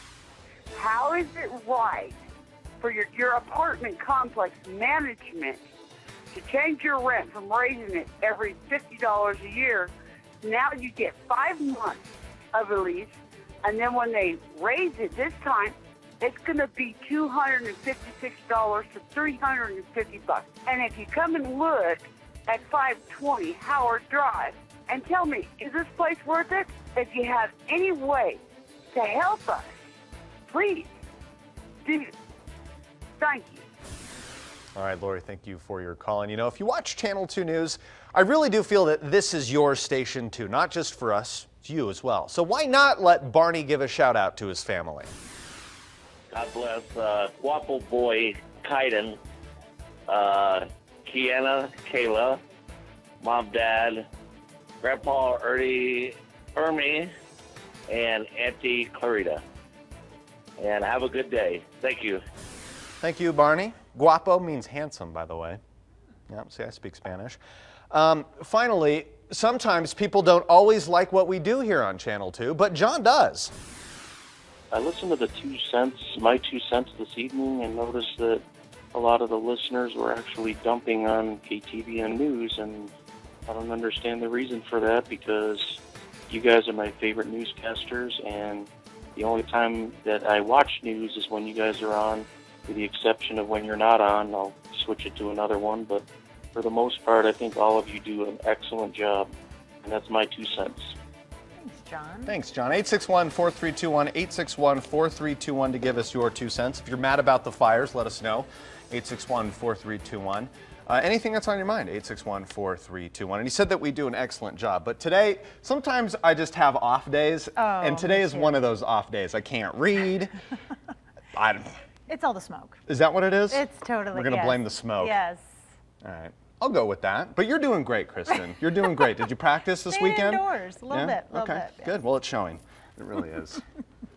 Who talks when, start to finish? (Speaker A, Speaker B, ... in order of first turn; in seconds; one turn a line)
Speaker A: 0.7-2.2
Speaker A: 2.8-5.6
Speaker A: 6.3-28.4
Speaker A: 28.9-29.8
Speaker A: 30.5-30.9
Speaker A: 31.9-32.1
Speaker A: 33.2-33.7
Speaker B: 34.8-45.1
Speaker C: 46.3-49.2
Speaker C: 50.1-52.4
Speaker C: 53.2-54.1
Speaker C: 54.8-57.1
Speaker C: 57.9-59.4
Speaker C: 60.6-62.2
Speaker B: 63.0-65.6
Speaker B: 66.3-67.4
Speaker B: 67.9-73.5
Speaker D: 74.7-82.9
Speaker D: 83.5-99.3
Speaker D: 99.8-101.0
Speaker E: 101.6-102.3
Speaker B: 102.3-120.3
Speaker E: 117.6-118.6
Speaker B: 121.3-121.7
Speaker E: 122.1-122.8
Speaker B: 122.9-125.2
Speaker E: 123.5-125.5
Speaker B: 126.0-133.6
Speaker E: 129.9-131.9